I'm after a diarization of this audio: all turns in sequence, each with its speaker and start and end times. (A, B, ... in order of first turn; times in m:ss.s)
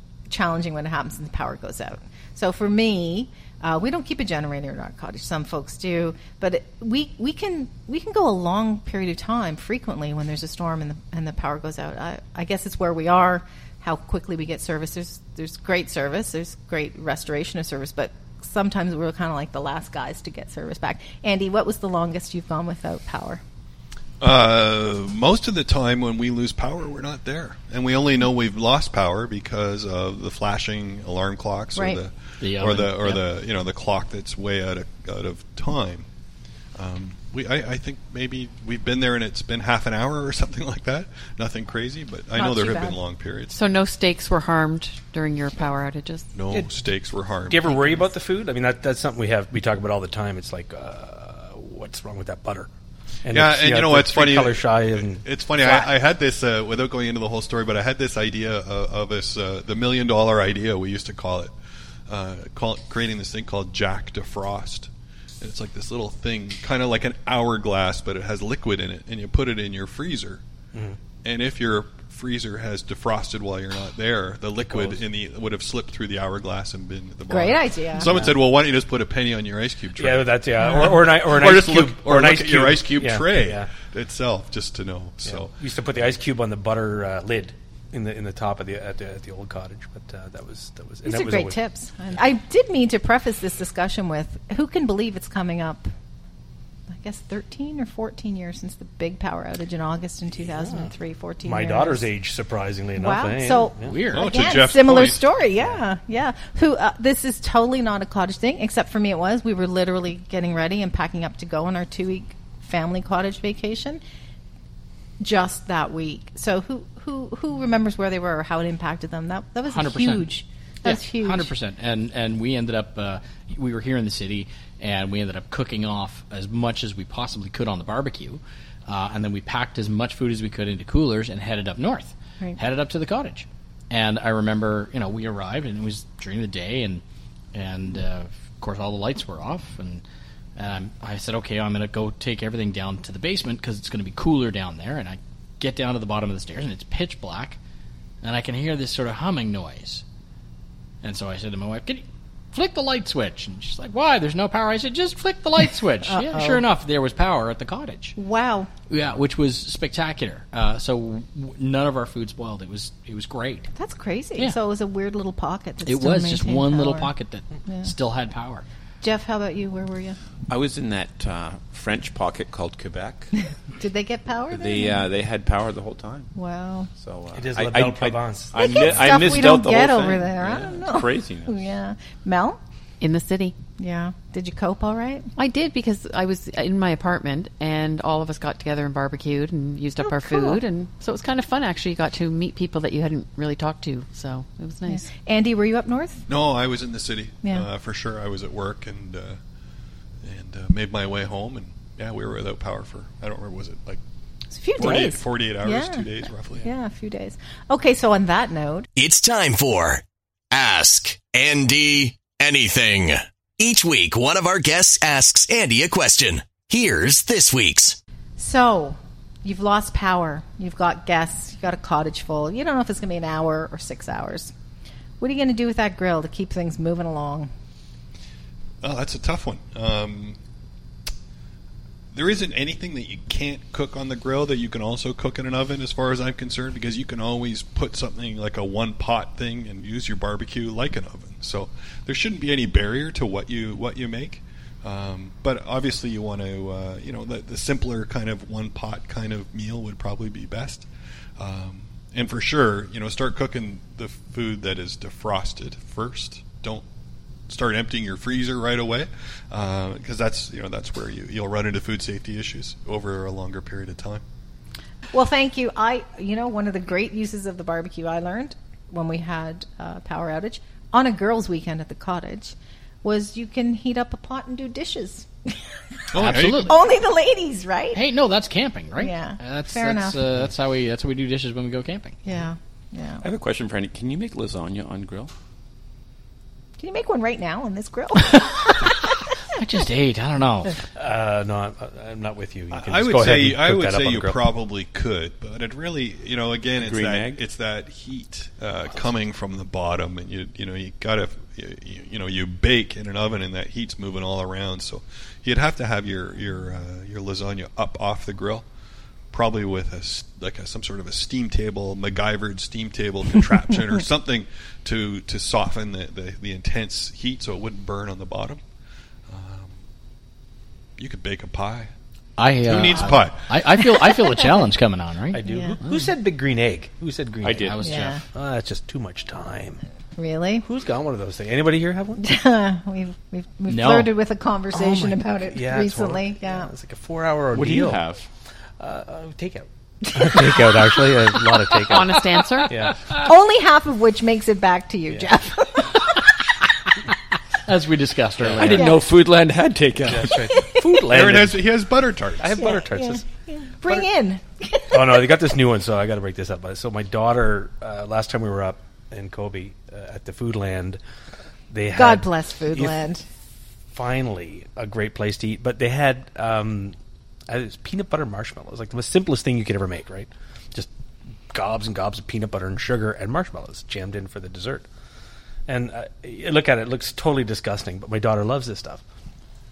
0:00.3-0:23.4 A
0:24.2-0:36.1 B
0:32.4-0:33.2 C
0:36.8-0:43.6 B
0:42.4-0:43.0 A
0:43.5-0:46.3 D
0:46.3-0:48.1 B
0:47.5-0:52.7 E
0:53.2-0:55.9 E
0:53.3-1:01.5 B
1:02.1-1:04.9 B
1:05.4-1:10.4 B
1:10.7-1:11.0 E
1:11.2-1:25.5 B
1:14.7-1:15.0 E
1:17.3-1:18.1 A
1:18.0-1:18.4 E
1:20.0-1:23.7 E
1:25.2-1:31.6 E
1:31.0-1:35.9 A
1:36.9-1:42.1 A
1:40.6-1:40.9 E
1:41.4-1:44.0 E
1:43.0-1:54.0 A
1:43.8-1:44.5 C
1:44.1-1:45.2 B
1:55.2-2:01.5 A
1:59.7-2:00.3 C
2:00.8-2:17.0 C
2:17.5-2:20.0 C
2:20.6-2:27.6 C
2:28.2-2:30.0 C
2:31.0-2:38.2 C
2:36.1-2:36.6 A
2:38.2-2:38.7 A
2:38.9-2:43.7 C
2:43.7-2:47.1 A
2:45.9-2:48.6 C
2:49.0-2:50.2 A
2:50.5-2:53.3 F
2:53.4-2:55.0 A
2:54.5-2:56.3 F
2:56.4-2:56.9 A
2:57.0-3:01.6 F
2:57.4-2:59.1 E
2:58.5-3:02.6 A
3:03.0-3:03.6 D
3:03.8-3:05.3 A
3:05.4-3:15.1 D
3:10.0-3:10.6 A
3:14.9-3:16.3 A
3:16.3-3:19.4 B
3:20.2-3:24.0 B
3:24.5-3:26.1 A
3:24.8-3:26.7 B
3:26.6-3:28.9 A
3:29.0-3:38.0 G
3:38.4-3:44.5 A
3:45.2-3:47.5 A
3:48.8-3:50.4 B
3:52.1-4:10.9 B
4:11.4-4:16.8 B
4:17.5-4:24.2 B
4:25.1-4:38.0 A
4:36.1-4:36.8 B
4:36.2-4:36.8 C
4:38.0-4:42.2 C
4:39.0-4:40.2 A
4:42.2-4:43.3 A
4:43.2-4:45.3 F
4:46.8-4:49.0 A
4:49.5-4:50.8 C
4:51.0-4:54.4 E
4:52.7-5:08.6 B
4:56.8-4:57.4 F
5:09.3-5:18.6 B
5:19.3-5:19.8 B
5:21.0-5:21.9 B
5:22.4-5:25.4 C
5:22.6-5:23.5 B
5:24.0-5:24.5 A
5:25.3-5:27.8 E
5:25.4-5:25.8 A
5:27.4-5:28.2 F
5:27.6-5:28.2 C
5:27.8-5:28.2 A
5:28.3-5:29.8 E
5:30.2-5:30.6 A
5:30.6-5:32.2 E
5:32.2-5:36.7 A
5:33.7-5:34.1 C
5:34.7-5:38.0 E
5:37.5-5:38.3 F
5:38.8-5:43.0 E
5:41.8-5:42.8 D
5:43.1-5:46.3 A
5:47.7-5:49.0 C
5:48.4-5:50.6 F
5:48.8-5:49.0 A
5:50.0-5:51.7 E
5:51.0-5:52.6 B
5:52.4-5:53.2 E
5:52.6-5:55.3 A
5:54.9-6:01.0 E
6:01.7-6:03.0 E
6:01.9-6:03.2 A
6:03.9-6:07.0 E
6:07.5-6:10.9 E
6:11.5-6:14.9 E
6:15.7-6:19.0 E